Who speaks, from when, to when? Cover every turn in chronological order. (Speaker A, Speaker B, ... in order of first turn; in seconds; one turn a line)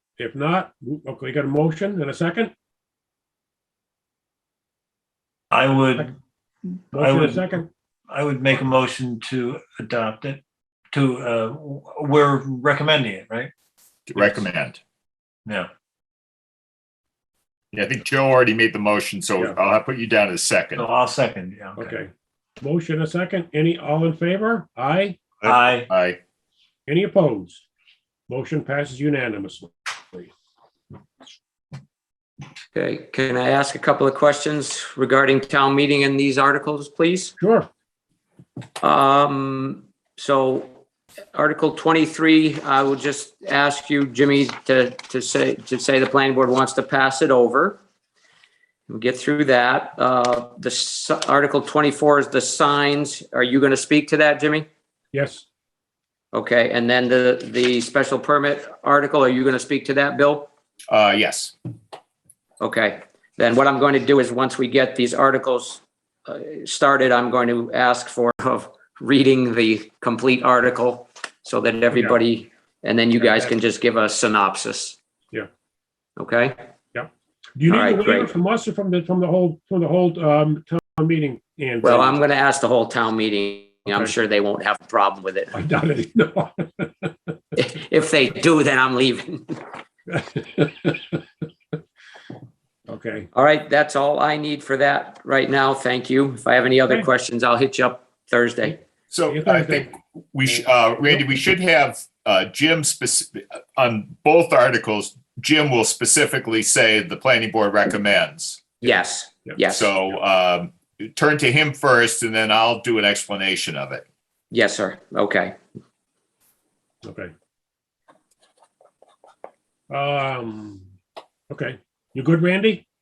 Speaker A: 0.2-2.5
Speaker B: 5.5-6.1
Speaker B: 6.9-7.6
Speaker A: 6.9-7.7
Speaker B: 8.1-10.4
Speaker B: 10.9-13.5
Speaker C: 14.1-14.8
Speaker C: 17.7-20.9
Speaker B: 20.7-22.0
Speaker A: 21.8-25.2
Speaker B: 25.4-25.9
Speaker C: 25.9-26.2
Speaker A: 26.9-27.6
Speaker A: 28.3-30.3
Speaker D: 32.7-37.3
Speaker A: 37.4-37.7
Speaker D: 38.8-40.8
Speaker D: 41.3-47.8
Speaker D: 48.9-54.7
Speaker A: 55.1-55.5
Speaker D: 56.3-60.5
Speaker C: 60.9-61.5
Speaker D: 62.6-75.0
Speaker A: 71.9-72.2
Speaker A: 73.2-73.5
Speaker D: 76.2-76.6
Speaker A: 76.9-82.2
Speaker D: 77.7-78.3
Speaker D: 81.8-85.6
Speaker A: 85.5-87.3
Speaker D: 87.6-89.7
Speaker A: 90.1-91.1
Speaker A: 92.9-93.3
Speaker D: 93.3-98.8
Speaker C: 99.1-108.7
Speaker A: 99.3-99.9
Speaker D: 108.8-110.0
Speaker C: 109.7-114.0
Speaker D: 114.5-115.5
Speaker A: 117.0-117.3
Speaker A: 119.9-120.9
Speaker A: 121.5-122.8